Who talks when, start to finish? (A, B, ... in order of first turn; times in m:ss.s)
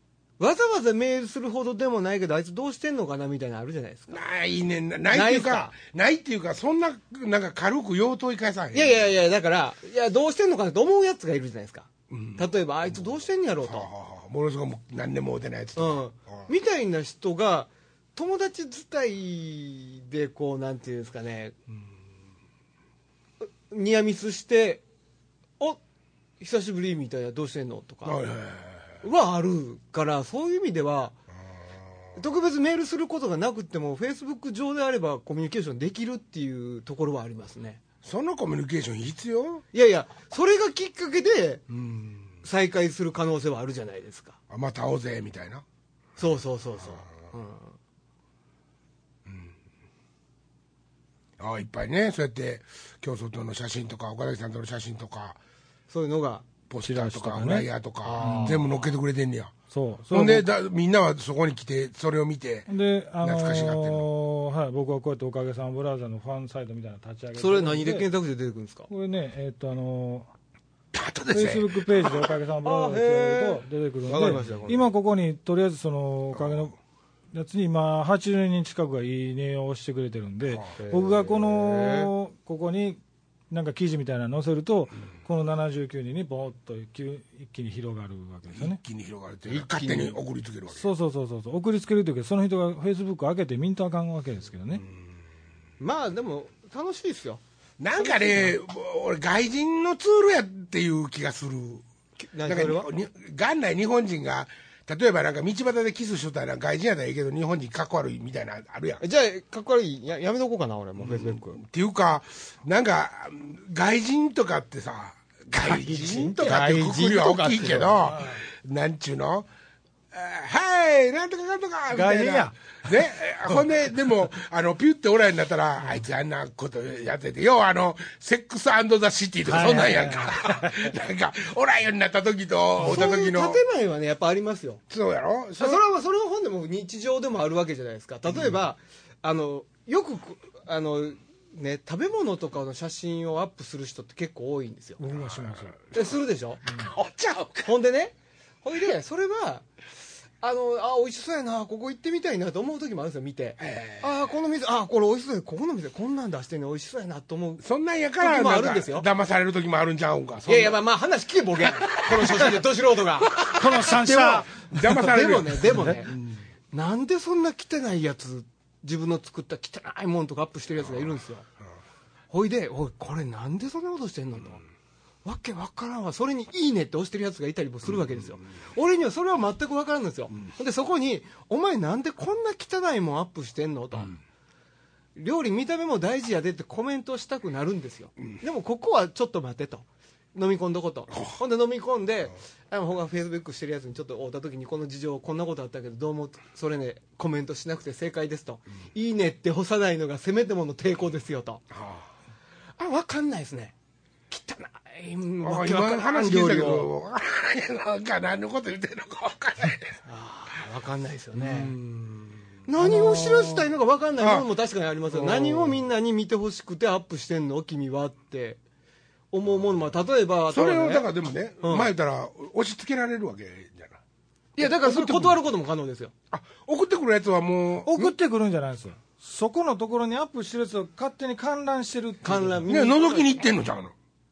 0:00.4-0:04.2 A
0:04.1-0:09.0 B
0:05.1-0:05.7 A
0:08.7-0:13.9 A
0:12.1-0:12.5 B
0:13.6-0:16.5 B
0:15.8-0:21.5 A
0:23.4-0:24.8 A
0:26.4-0:28.2 A
0:28.0-0:29.0 B
0:29.0-0:31.2 A
0:32.2-0:37.8 A
0:38.0-0:39.6 B
0:39.7-0:41.6 A
0:41.7-0:42.4 B
0:42.4-0:44.4 A
0:44.5-0:45.6 B
0:46.2-0:47.7 A
0:49.2-0:49.5 B
0:51.4-0:55.4 B
0:55.9-0:56.5 A
0:56.7-0:59.5 B
0:56.8-0:57.7 C
0:58.0-0:58.8 A
0:58.2-0:58.6 C
0:59.7-1:00.5 C
1:00.1-1:02.7 B
1:02.7-1:08.0 C
1:03.2-1:04.0 B
1:07.4-1:08.9 A
1:08.9-1:10.3 C
1:10.9-1:12.1 B
1:11.3-1:16.8 C
1:12.6-1:14.8 A
1:17.3-1:28.8 C
1:20.8-1:22.1 A
1:28.5-1:30.9 B
1:29.5-1:30.2 A
1:30.7-1:34.8 C
1:35.8-1:37.4 A
1:37.8-1:41.8 B
1:38.0-1:38.5 A
1:42.2-1:42.9 A
1:42.5-1:49.0 B
1:49.0-1:51.6 A
1:51.0-1:59.5 B
1:55.5-1:58.1 A
1:58.1-1:58.4 C
2:00.1-2:13.6 B
2:01.9-2:02.5 C
2:09.4-2:10.9 C
2:12.8-2:14.8 A
2:14.9-2:15.8 B
2:15.6-2:25.0 A
2:25.0-2:25.7 C
2:25.1-2:26.1 B
2:25.9-2:26.6 A
2:26.7-2:27.7 B
2:27.6-2:29.6 A
2:30.4-2:37.6 A
2:33.6-2:34.1 B
2:37.6-2:40.8 B
2:38.2-2:39.1 A
2:40.5-2:43.4 A
2:41.7-2:42.6 B
2:43.2-2:46.5 B
2:43.5-2:44.5 C
2:44.8-2:46.2 A
2:45.7-2:45.9 C
2:46.7-2:51.4 A
2:52.3-2:54.6 A
2:55.2-3:04.1 A
3:05.2-3:21.6 A
3:21.7-3:22.1 B
3:22.8-3:23.7 A
3:24.3-3:26.9 A
3:25.4-3:30.0 B
3:30.0-3:31.8 A
3:31.4-3:33.5 B
3:32.7-3:38.6 A
3:34.2-3:34.5 B
3:35.1-3:35.8 B
3:39.3-3:41.1 A
3:40.5-3:44.0 B
3:41.6-3:41.9 A
3:44.6-3:46.1 A
3:44.6-3:45.4 B
3:46.3-3:48.2 B
3:47.8-3:52.6 C
3:52.2-3:53.4 A
3:52.7-3:53.9 B